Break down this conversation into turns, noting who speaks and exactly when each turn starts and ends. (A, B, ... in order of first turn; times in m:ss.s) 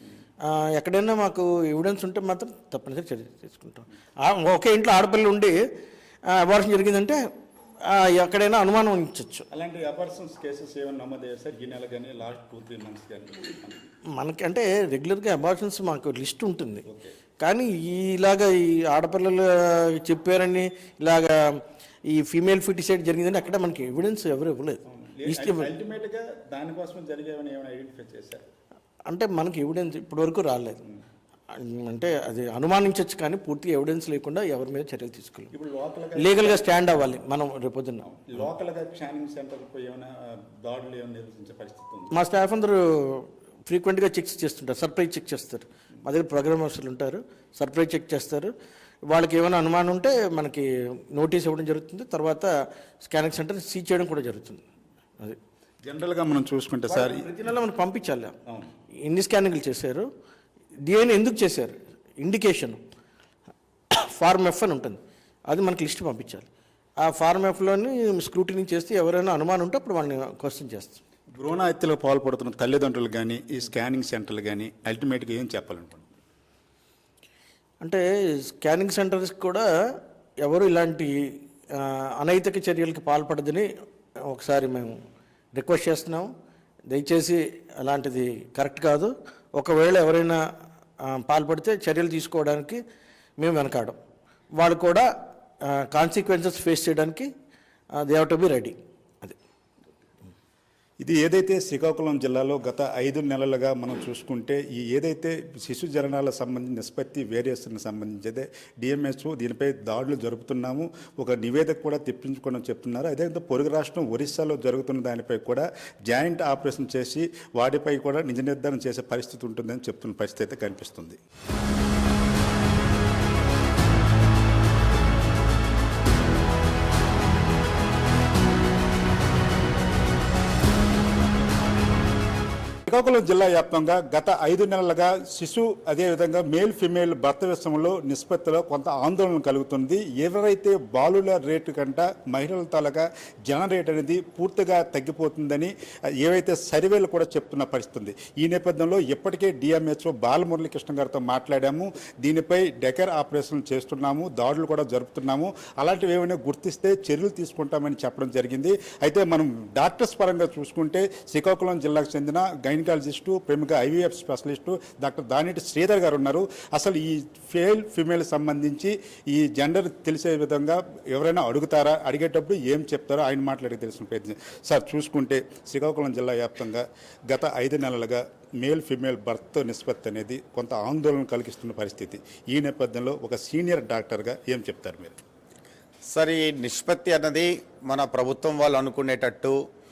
0:00.4-0:05.6 A
0:06.3-0:07.2 A
0:07.8-0:09.4 A
0:09.5-0:13.8 B
0:14.2-0:16.9 A
0:16.9-0:17.1 B
0:17.4-0:25.7 A
0:24.9-0:28.4 B
0:29.1-0:30.8 A
0:31.5-0:35.5 A
0:35.5-0:37.2 B
0:36.2-0:38.0 A
0:38.0-0:42.1 B
0:42.1-0:48.5 A
0:49.1-0:52.5 A
0:53.0-0:54.6 A
0:55.8-0:57.2 B
0:56.9-0:58.3 A
0:59.0-1:00.1 A
1:00.9-1:02.8 A
1:03.9-1:06.5 A
1:07.0-1:11.0 A
1:11.4-1:16.1 B
1:17.8-1:19.6 A
1:20.4-1:21.1 A
1:21.7-1:23.7 A
1:24.3-1:24.9 A
1:25.5-1:26.3 A
1:26.9-1:30.4 A
1:31.0-1:32.8 A
1:33.4-1:34.0 A
1:34.6-1:35.1 A
1:35.6-1:37.3 A
1:38.0-1:39.4 A
1:41.0-2:01.2 B
2:12.9-3:05.2 B
3:06.1-3:09.6 C